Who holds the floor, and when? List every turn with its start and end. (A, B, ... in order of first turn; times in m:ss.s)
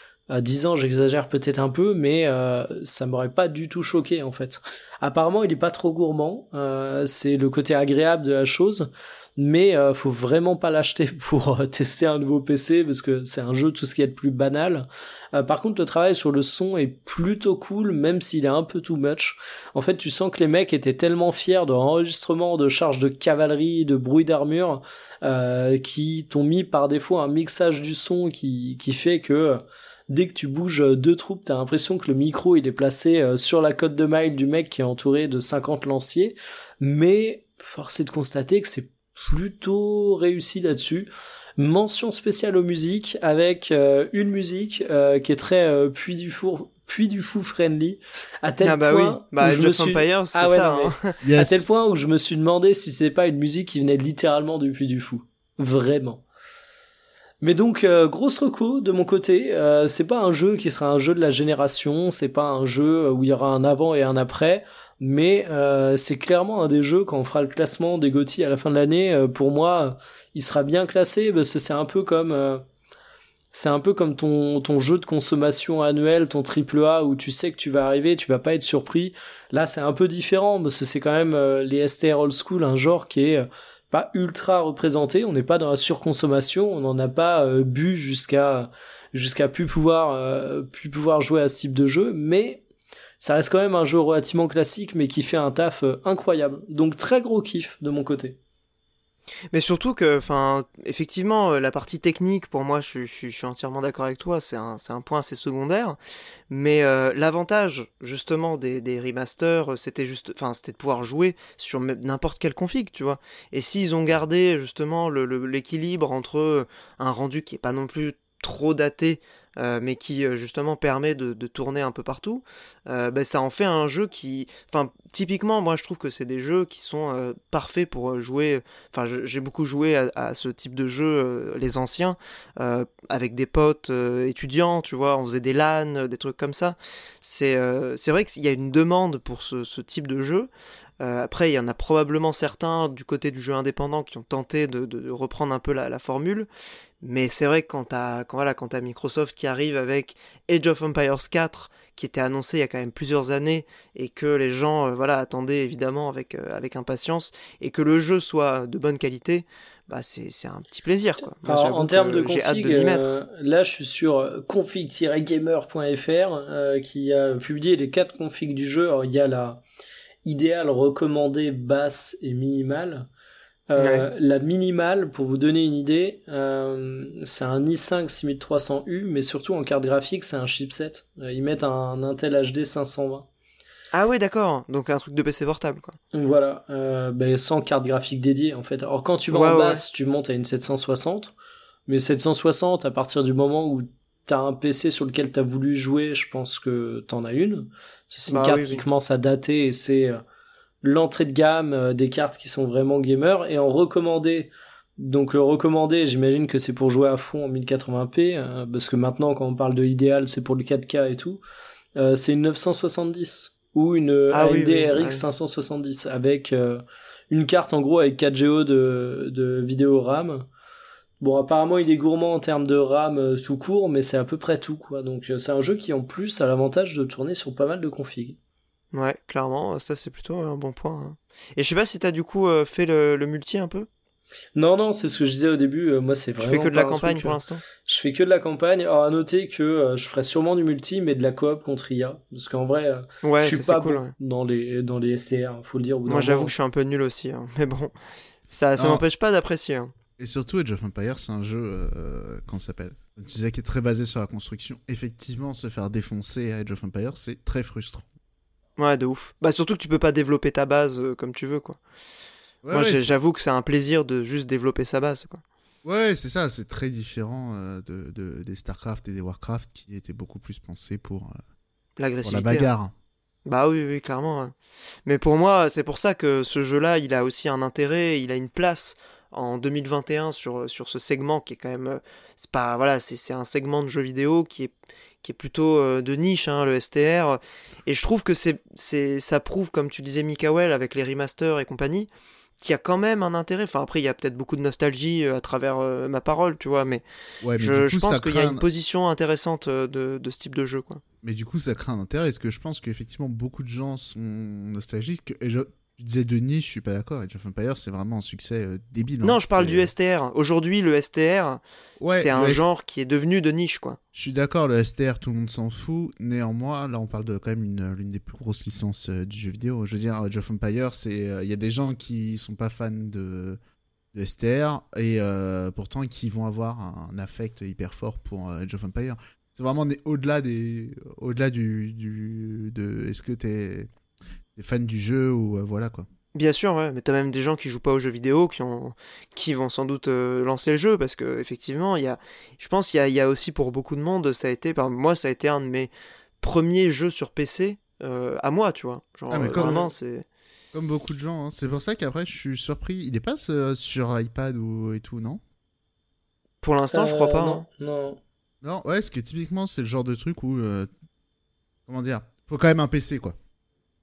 0:00.3-0:56.2 A
0:48.6-0:51.1 B
0:51.2-0:51.6 C
0:57.4-1:12.6 A
1:13.5-1:32.6 A
1:33.2-1:38.4 A
1:39.5-1:46.0 B
1:46.5-2:20.5 B
2:21.0-2:26.5 B
2:27.0-2:43.1 B
2:41.4-2:49.6 A
2:50.2-2:53.1 A
2:53.7-3:03.3 A
2:53.8-2:54.1 B
3:03.9-3:06.0 B
3:06.1-3:11.3 A
3:09.3-3:09.8 B
3:11.9-3:20.2 A
3:18.3-3:18.8 B
3:20.8-3:31.4 A
3:32.0-3:40.4 A
3:34.3-3:35.2 B
3:41.2-3:48.4 A
3:48.9-3:53.9 B
3:54.5-4:06.5 A
3:56.4-3:57.6 B
4:03.2-4:04.1 B
4:06.0-4:07.9 B
4:08.5-4:09.9 B
4:08.8-4:09.0 C
4:10.2-4:18.0 C
4:18.8-4:21.8 B
4:22.6-4:23.1 C
4:22.7-4:25.4 B
4:25.8-4:31.4 C
4:32.0-4:32.7 B
4:32.2-4:32.9 C
4:33.4-4:34.5 B
4:35.0-4:57.0 B
4:57.4-4:58.6 C
4:57.6-5:01.0 B
5:01.2-5:09.9 C
5:09.2-5:14.0 B
5:12.0-5:12.6 C
5:14.1-5:23.6 C
5:24.1-5:33.9 C
5:34.6-5:36.1 C
5:36.3-5:50.2 B
5:49.3-5:49.9 C
5:50.7-5:55.4 C
5:56.6-5:57.6 B
5:56.9-5:58.2 A
5:58.6-6:00.9 C
6:01.9-6:03.4 C